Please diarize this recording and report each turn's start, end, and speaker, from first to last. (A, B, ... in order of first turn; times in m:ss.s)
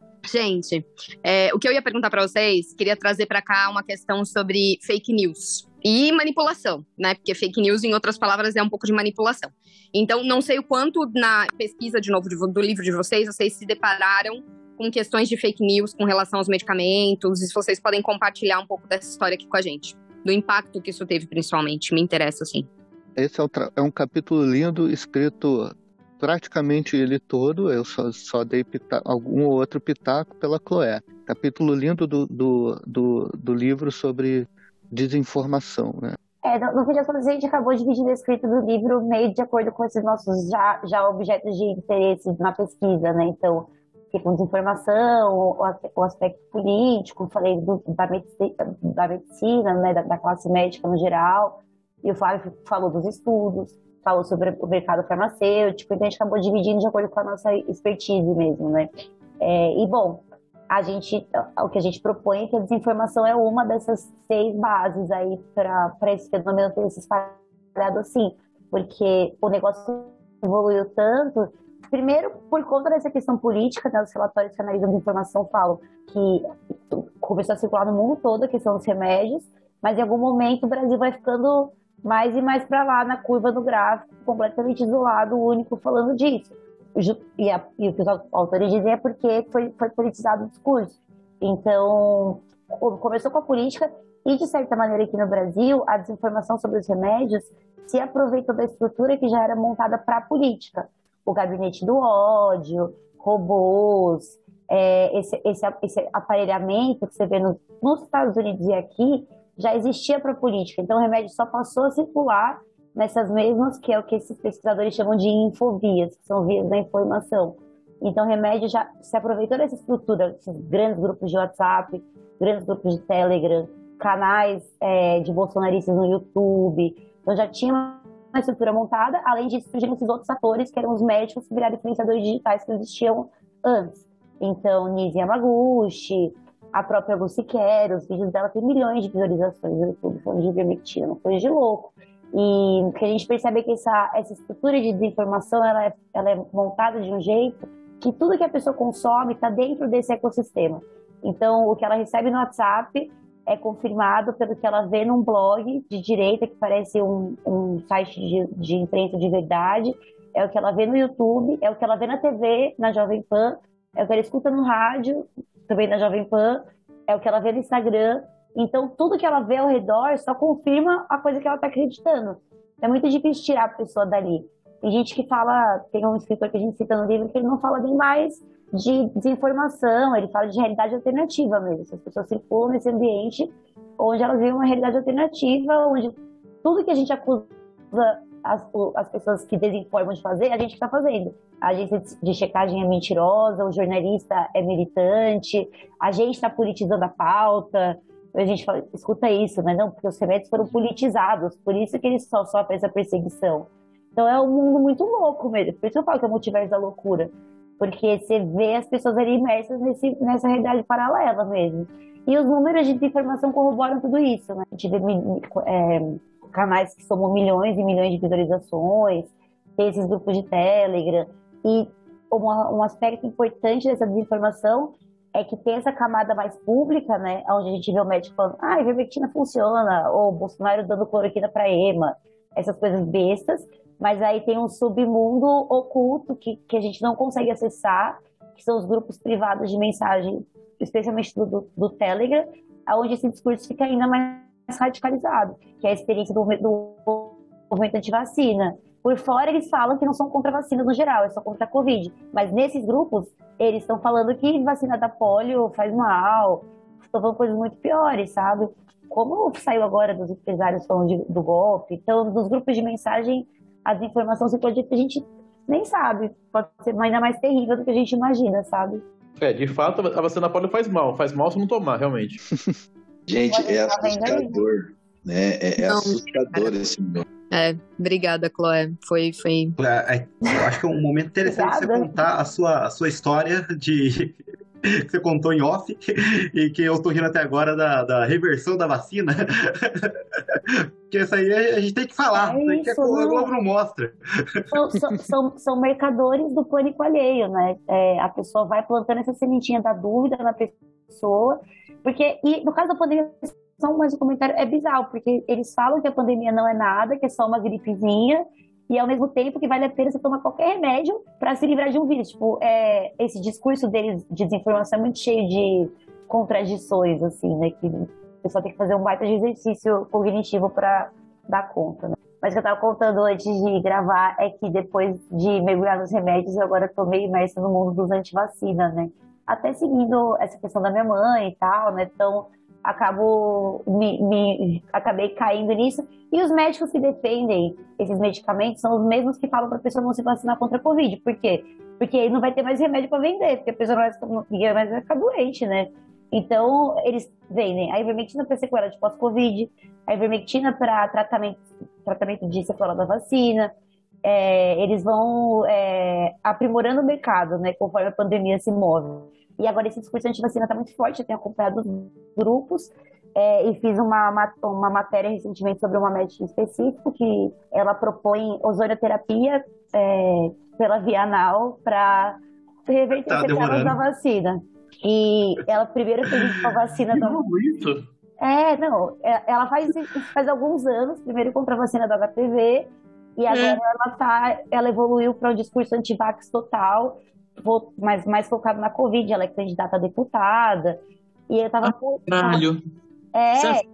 0:00.2-0:22.7 A
0:23.2-0:36.2 B
0:36.4-4:29.0 C
4:29.4-4:32.4 D
4:33.3-4:37.2 E
4:33.5-4:34.6 C
4:35.8-4:36.7 A
4:37.5-4:39.8 A
4:39.8-4:50.1 F
4:41.4-4:42.2 C
4:50.7-4:54.2 F
4:52.3-4:53.6 C
4:54.7-5:53.7 C
5:54.2-6:17.4 C
6:13.2-6:14.0 F
6:17.1-6:18.1 D
6:18.4-6:31.0 C
6:23.5-6:23.8 D
6:31.5-6:32.6 C
6:31.8-6:32.8 D
6:33.3-6:33.8 C
6:33.5-6:33.8 D